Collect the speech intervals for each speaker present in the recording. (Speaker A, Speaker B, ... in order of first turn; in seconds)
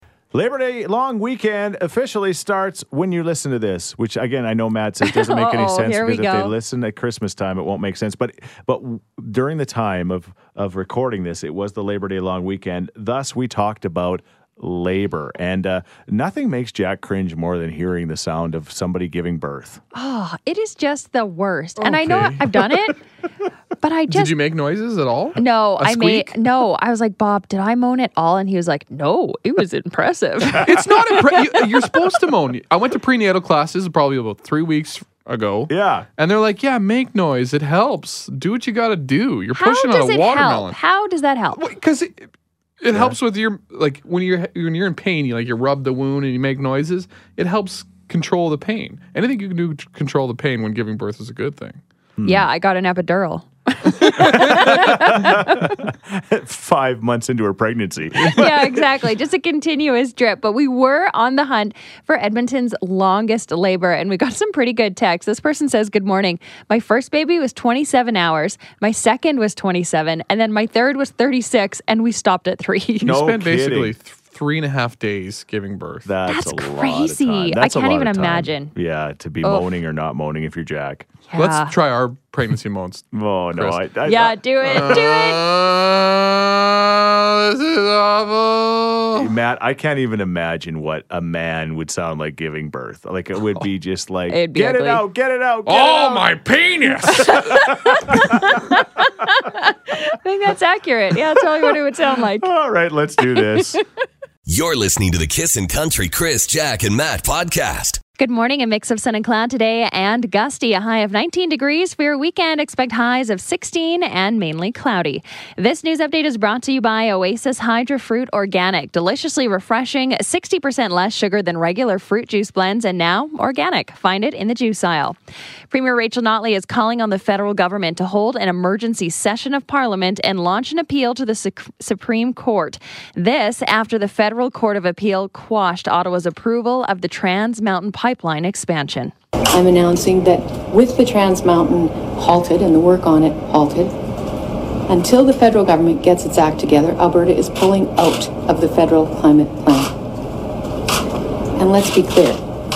Speaker A: 0.3-19.8, 35.7-36.1, 42.9-43.2, 52.2-52.5, 54.1-58.8, 73.0-73.9, 76.0-81.1, 83.1-85.0, 89.1-96.3, 97.0-98.6, 102.4-103.8
Speaker B: 5.0-6.5, 19.9-23.0, 23.8-24.4, 25.4-31.2, 39.5-41.6, 52.2-55.7, 58.3-73.2, 76.3-78.7, 79.4-79.7, 81.3-81.7, 84.0-85.4, 94.3-95.0, 97.2-102.5, 103.3-103.8, 108.2-125.2, 125.7-139.1
Speaker C: 21.8-22.8, 24.1-26.4, 30.6-40.8, 41.5-42.3, 42.8-51.8, 54.2-54.6, 73.0-76.1, 81.3-83.8, 84.6-89.3, 95.7-97.6
Speaker D: 104.5-108.0
Speaker E: 139.5-143.9, 144.9-149.9, 151.5-152.4